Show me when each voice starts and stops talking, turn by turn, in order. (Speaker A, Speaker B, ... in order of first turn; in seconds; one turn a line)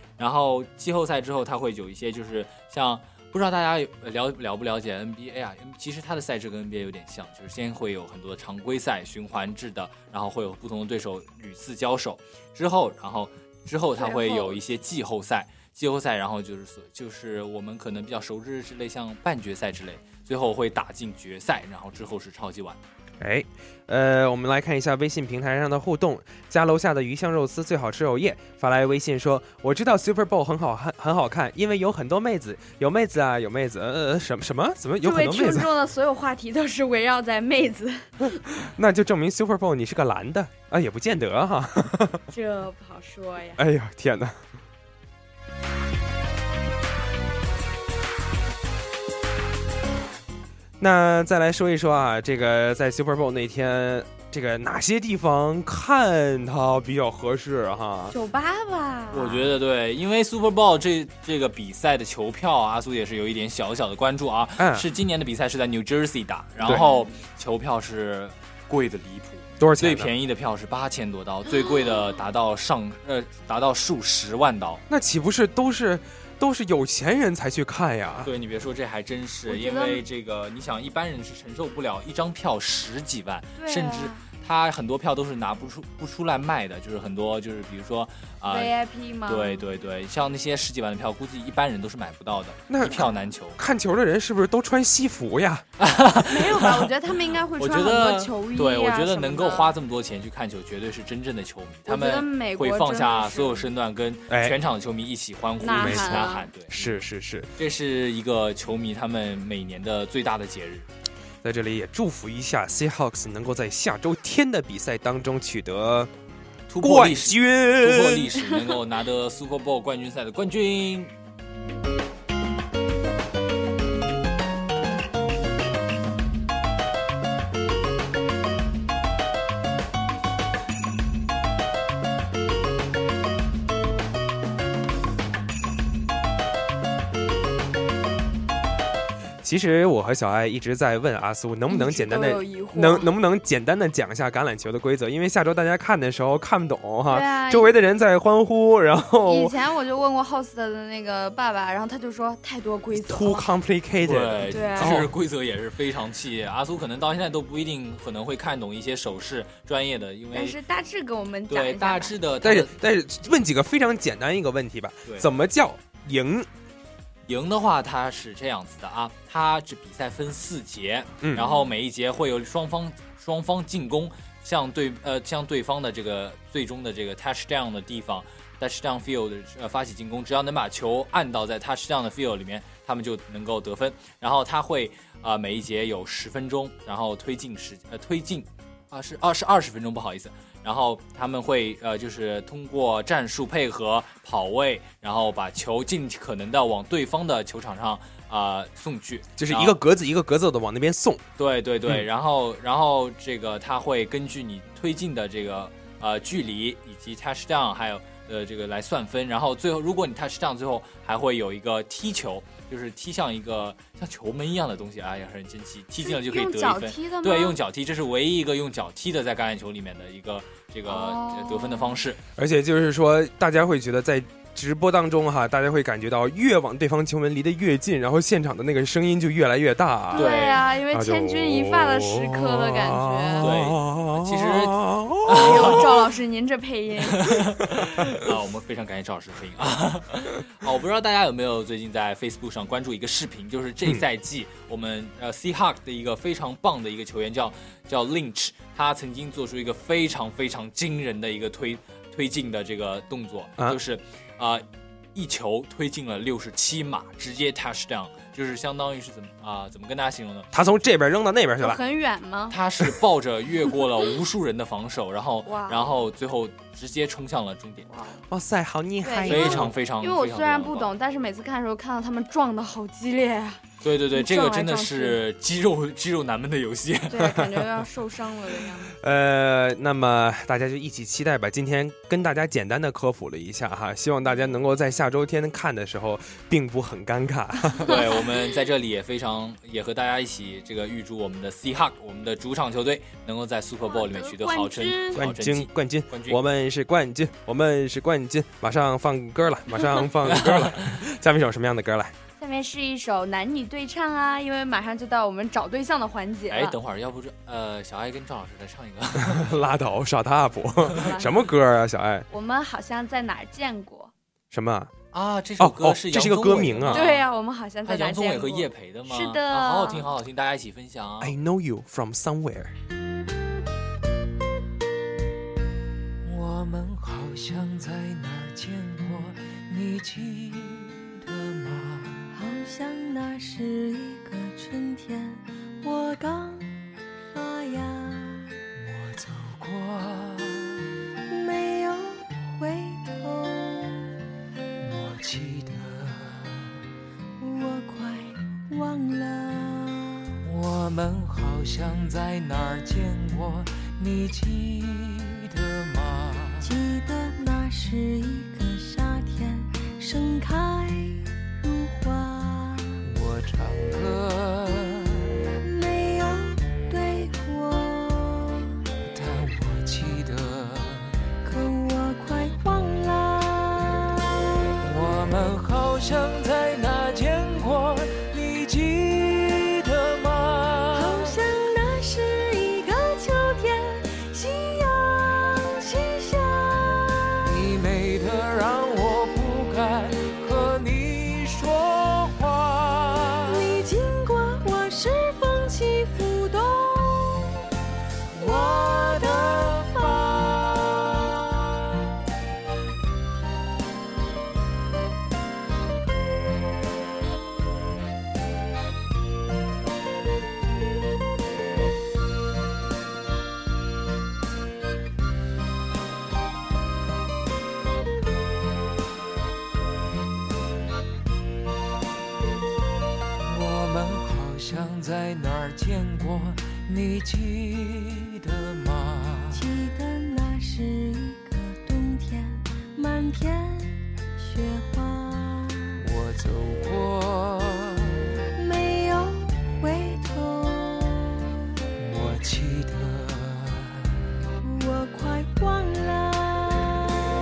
Speaker A: 0.2-22.8
Speaker B: 14.0-14.6
Speaker C: 23.2-35.7
Speaker B: 35.0-38.4
Speaker C: 38.6-42.2
Speaker B: 42.3-43.6
Speaker C: 43.6-44.4
Speaker C: 50.8-58.1
Speaker B: 58.1-59.5
Speaker A: 59.1-74.8
Speaker C: 64.6-64.9
Speaker B: 66.7-67.1
Speaker C: 69.6-70.1
Speaker B: 71.6-72.0
Speaker C: 74.9-78.3
Speaker A: 78.2-88.7
Speaker B: 79.5-80.0
Speaker B: 83.6-84.2
Speaker B: 88.5-89.6
Speaker A: 89.3-93.6
Speaker C: 92.7-95.6
Speaker A: 95.8-96.9
Speaker B: 96.2-99.7
Speaker A: 97.6-106.8
Speaker B: 101.9-103.7
Speaker C: 104.3-104.6
Speaker B: 105.6-106.5
Speaker C: 105.7-107.5
Speaker A: 107.6-110.9
Speaker C: 111.4-116.1
Speaker A: 116.7-121.1
Speaker C: 116.8-118.3
Speaker C: 139.4-149.6
Speaker B: 141.7-143.1
Speaker B: 147.1-147.7
Speaker B: 149.2-153.5
Speaker C: 152.9-155.1
Speaker A: 154.0-160.6
Speaker B: 154.5-155.1
Speaker B: 160.3-162.2
Speaker A: 161.5-162.8
Speaker C: 162.4-166.5
Speaker A: 167.3-199.8
Speaker B: 171.4-171.7
Speaker C: 199.4-201.2
Speaker A: 201.4-222.2
Speaker B: 216.0-217.6
Speaker B: 220.9-222.0
Speaker C: 222.4-235.9
Speaker B: 230.1-233.5
Speaker A: 230.1-230.8
Speaker A: 233.4-236.1
Speaker B: 235.3-237.4
Speaker A: 237.1-260.5
Speaker C: 260.5-261.8
Speaker B: 261.6-262.6
Speaker A: 262.5-267.9
Speaker B: 265.5-265.9
Speaker B: 267.9-268.2
Speaker C: 268.3-269.7
Speaker B: 269.0-275.2
Speaker A: 269.3-270.9
Speaker A: 273.8-277.4
Speaker B: 277.1-279.0
Speaker C: 279.0-288.0
Speaker A: 287.9-296.4
Speaker B: 293.8-295.2
Speaker C: 295.1-302.1
Speaker A: 300.2-301.0
Speaker B: 302.4-306.8
Speaker A: 306.5-309.6
Speaker C: 309.2-312.3
Speaker B: 310.9-311.4
Speaker B: 312.3-314.1
Speaker C: 314.5-314.9
Speaker A: 315.1-317.3
Speaker C: 315.6-317.0
Speaker B: 316.9-320.1
Speaker A: 317.9-321.3
Speaker C: 321.2-322.7
Speaker D: 326.2-332.3
Speaker E: 332.3-338.4
Speaker D: 338.8-340.9
Speaker E: 341.3-344.1
Speaker D: 344.8-346.8
Speaker E: 347.4-350.0
Speaker D: 350.4-356.7
Speaker E: 356.6-362.9
Speaker D: 363.0-365.4
Speaker E: 365.6-368.6
Speaker D: 369.0-371.2
Speaker E: 371.4-374.0
Speaker D: 374.8-381.4
Speaker E: 380.9-387.1
Speaker D: 387.4-393.7
Speaker E: 393.5-397.5
Speaker E: 398.3-401.0
Speaker D: 398.4-400.2
Speaker D: 423.4-429.6
Speaker E: 429.6-435.9
Speaker D: 436.0-438.3
Speaker E: 438.6-441.3
Speaker D: 442.0-444.1
Speaker E: 444.6-447.0